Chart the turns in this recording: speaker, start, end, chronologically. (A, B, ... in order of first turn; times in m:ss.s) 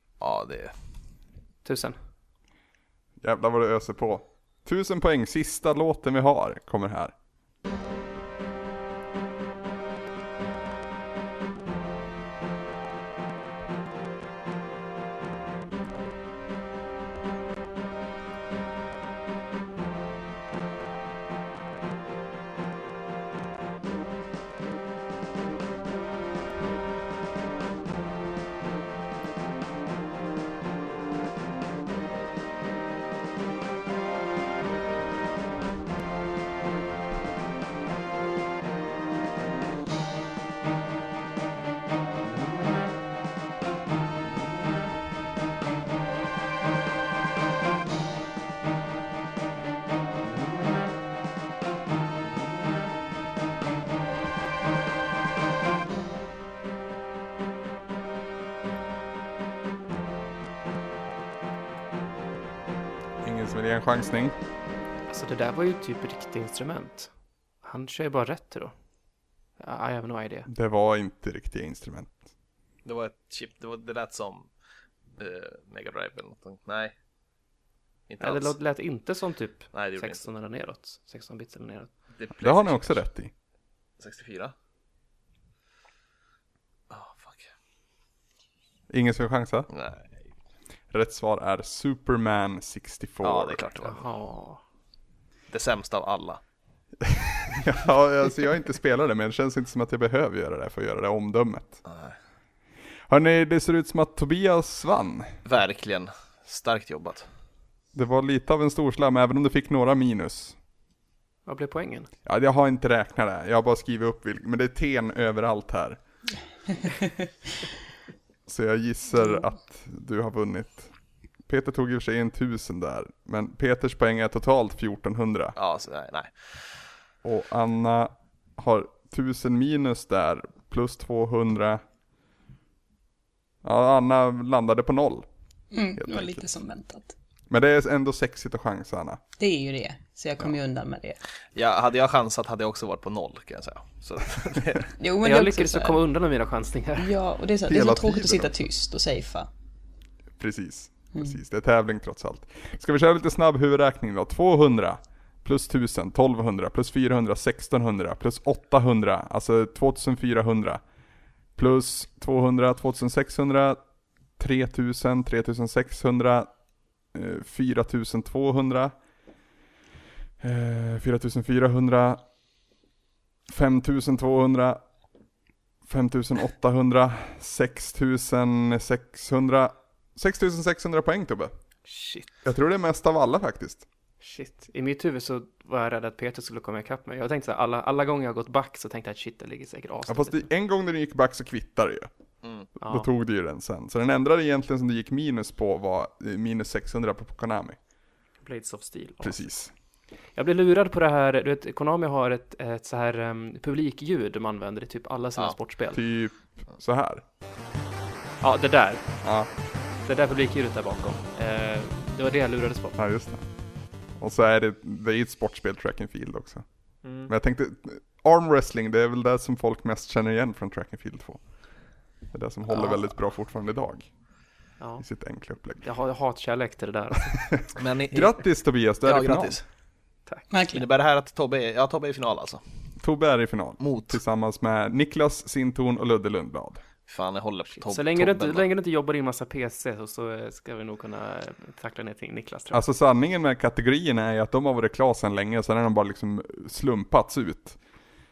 0:00.2-0:00.7 A
0:01.6-0:02.0 B
0:03.2-0:07.1 C
1:03.2-1:04.4 C
1:05.1-1:07.1 B
1:07.6-1:08.7 B
1:09.6-1:10.5 B
1:10.4-1:12.2 C
1:12.8-1:14.5 A
1:15.2-1:16.9 A
1:18.1-1:18.5 A
1:18.2-1:21.9 B
1:19.7-1:20.2 A
1:22.1-1:23.0 A
1:22.4-1:23.3 C
1:24.0-1:24.5 A
1:26.9-1:27.5 A
1:28.9-1:29.7 C
1:29.7-1:30.1 A
1:30.9-1:33.6 C
1:33.2-1:34.0 A
1:33.8-1:34.6 B
1:35.5-1:36.4 A
1:37.0-1:41.8 C
1:41.8-1:42.1 A
1:43.1-1:45.3 C
1:45.4-1:47.2 A
1:47.9-1:50.5 C
1:51.4-1:52.1 B
1:52.2-1:56.0 C
1:58.5-2:00.9 C
2:01.4-2:05.6 C
2:05.6-2:06.6 A
2:07.2-2:11.8 C
2:13.6-2:15.3 C
2:15.7-2:17.1 D
2:16.0-2:16.4 C
2:17.5-2:19.2 C
2:19.4-2:21.2 D
2:21.5-2:24.9 A
2:25.0-2:26.0 D
2:25.2-2:27.1 B
2:27.0-2:29.5 D
2:27.7-2:28.6 C
2:30.4-2:40.8 C
2:41.6-2:43.8 C
2:44.4-2:46.5 C
2:47.1-2:48.9 C
2:50.4-2:52.2 C
2:53.5-2:54.8 C
2:55.8-3:01.5 C
3:01.8-3:02.3 B
3:02.4-3:03.8 C
3:04.2-3:10.5 B
3:10.1-3:12.1 C
3:12.4-3:12.7 A
3:12.8-3:13.1 B
3:12.8-3:17.8 C
3:18.4-3:19.5 B
3:19.2-3:19.7 C
3:20.3-3:26.0 B
3:25.9-3:27.2 C
3:28.4-3:29.1 B
3:29.2-3:29.5 C
3:30.0-3:33.0 B
3:33.0-3:33.4 C
3:34.2-3:36.6 C
3:37.0-3:37.3 B
3:37.2-3:41.4 C
3:42.3-3:44.1 C
3:42.7-3:43.0 B
3:44.8-3:45.0 B
3:45.0-3:45.8 C
3:45.8-3:47.4 B
3:47.4-3:49.6 C
3:47.8-3:48.4 A
3:49.0-3:49.6 A
3:50.5-3:50.8 D
3:50.7-3:52.6 A
3:53.0-3:56.8 C
3:53.8-3:54.2 A
3:57.1-3:58.6 A
3:57.8-4:02.8 B
4:02.7-4:07.8 C